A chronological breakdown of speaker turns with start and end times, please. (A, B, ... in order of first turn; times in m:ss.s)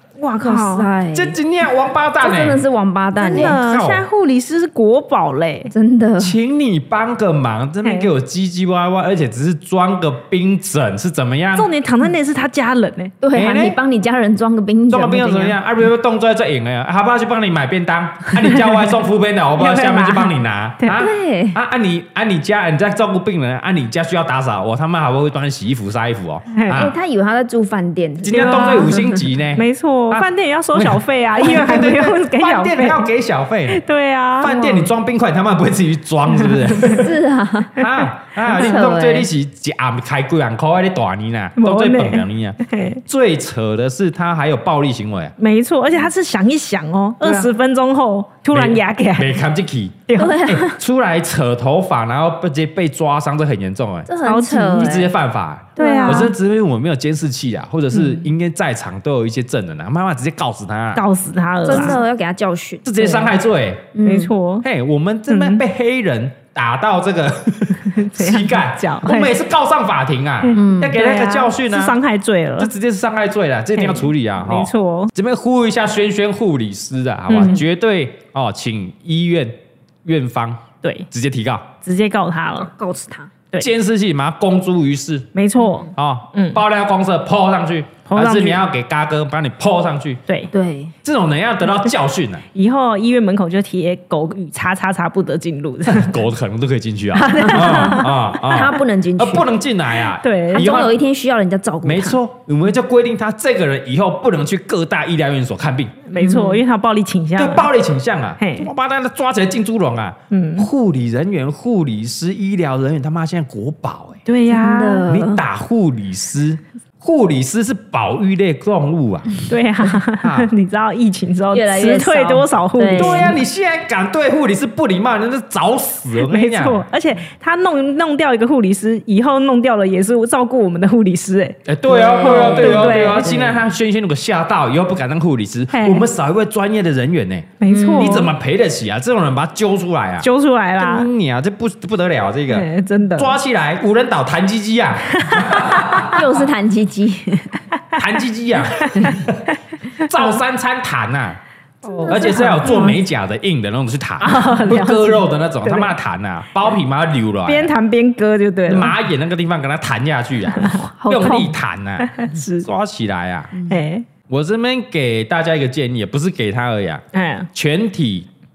0:00.2-0:00.9 A
0:00.4-0:01.4 B
0:01.1-0:02.6 C
0:02.2-0:03.6 B
0:03.2-0:05.7 A
0:03.3-0:04.0 C
0:05.7-0:06.4 B
0:06.2-0:11.7 C
0:07.8-0:08.1 A
0:11.6-0:13.1 A
0:13.2-0:15.6 B
0:13.3-0:13.8 C
0:14.9-0:26.9 C
0:19.6-0:21.0 A
0:20.9-0:21.6 B
0:26.5-0:26.8 A
0:26.7-0:29.1 B
0:28.2-0:33.8 C
0:28.3-0:33.1 A
0:33.7-0:34.8 A
0:34.4-0:37.1 C
0:34.5-0:34.8 B
0:36.4-0:36.8 A
0:36.7-0:37.8 B
0:37.8-0:45.3 C
0:38.4-0:38.8 A
0:38.4-0:39.3 B
0:41.6-0:43.0 A
0:45.4-0:49.4 A
0:48.5-0:54.1 C
0:50.1-0:50.4 A
0:50.2-0:50.8 B
0:54.1-0:55.1 B
0:54.2-0:55.0 A
0:54.7-1:01.0 C
0:55.8-0:56.3 A
0:55.8-0:56.3 B
0:57.9-0:58.3 A
1:00.9-1:02.0 A
1:01.6-1:03.3 B
1:02.8-1:03.9 C
1:03.9-1:04.3 B
1:04.0-1:04.6 A
1:04.6-1:12.0 C
1:05.3-1:05.6 A
1:07.8-1:09.3 A
1:10.4-1:12.7 A
1:10.6-1:10.9 B
1:12.6-1:21.7 C
1:13.7-1:15.1 A
1:17.3-1:17.6 A
1:21.8-1:22.7 A
1:22.6-1:23.3 B
1:23.6-1:25.3 C
1:25.3-1:26.6 A
1:25.9-1:30.2 C
1:28.1-1:28.6 A
1:30.3-1:30.5 A
1:30.5-1:30.9 B
1:31.0-1:32.4 C
1:32.5-1:36.2 A
1:35.8-1:40.9 C
1:37.1-1:38.1 A
1:37.7-1:39.4 B
1:40.2-1:40.8 A
1:40.5-1:42.2 B
1:41.8-1:45.9 C
1:46.1-1:47.7 A
1:46.2-1:46.6 B
1:47.4-1:54.2 C
1:48.4-1:48.7 A
1:50.3-1:50.7 A
1:54.2-1:55.1 A
1:54.5-1:55.4 B
1:55.1-1:59.4 C
1:59.5-2:03.4 A
2:00.2-2:00.5 C
2:01.5-2:03.4 B
2:02.9-2:06.8 C
2:06.2-2:11.6 A
2:11.6-2:26.0 C
2:11.8-2:13.6 B
2:12.2-2:13.4 A
2:15.7-2:16.1 A
2:17.6-2:18.3 A
2:17.7-2:18.2 B
2:20.2-2:21.1 A
2:22.5-2:23.3 A
2:25.2-2:26.0 A
2:26.0-2:27.6 B
2:27.9-2:31.4 C
2:31.8-2:32.9 B
2:31.8-2:33.0 A
2:32.1-2:37.7 C
2:34.2-2:35.9 A
2:37.4-2:39.0 A
2:38.7-2:43.5 C
2:40.5-2:40.9 A
2:41.0-2:41.6 B
2:42.0-2:42.7 A
2:43.5-2:43.8 B
2:43.7-2:44.0 A
2:44.3-2:47.0 C
2:47.1-2:47.5 A
2:47.5-2:48.3 C